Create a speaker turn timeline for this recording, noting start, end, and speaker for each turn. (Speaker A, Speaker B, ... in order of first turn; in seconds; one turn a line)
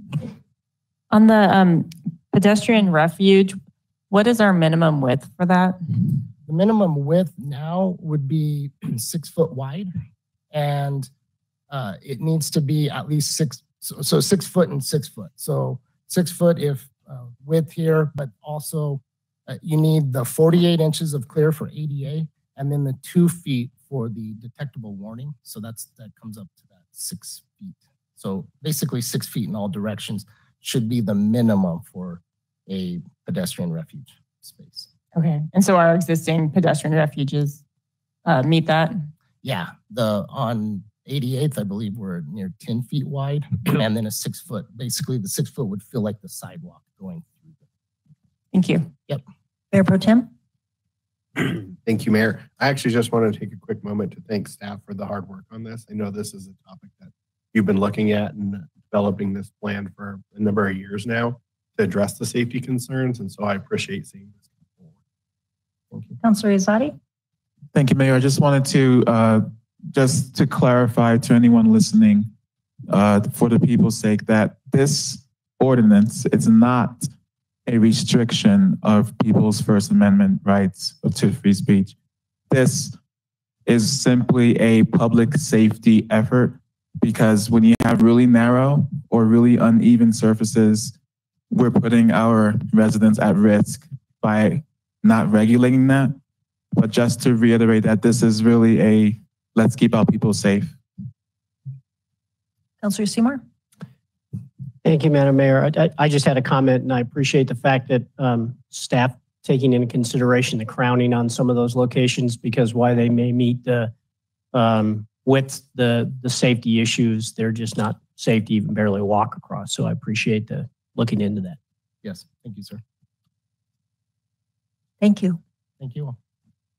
Speaker A: 1.1-3.6
Speaker A: 4.1-6.2
Speaker B: 6.5-9.9
Speaker B: 10.5-11.1
Speaker B: 11.7-34.9
Speaker A: 35.1-37.6
Speaker A: 38.2-39.0
Speaker B: 39.4-47.6
Speaker A: 48.5-48.9
Speaker C: 49.7-50.3
Speaker D: 51.4-65.0
Speaker C: 66.2-67.0
Speaker E: 67.7-72.3
Speaker E: 72.9-77.1
Speaker E: 77.7-82.0
Speaker E: 82.5-83.0
Speaker E: 83.7-91.0
Speaker E: 91.5-96.2
Speaker E: 96.7-100.8
Speaker C: 102.8-103.4
Speaker F: 104.8-113.9
Speaker F: 114.5-121.6
Speaker B: 122.0-122.8
Speaker C: 125.0-125.4
Speaker B: 125.8-126.2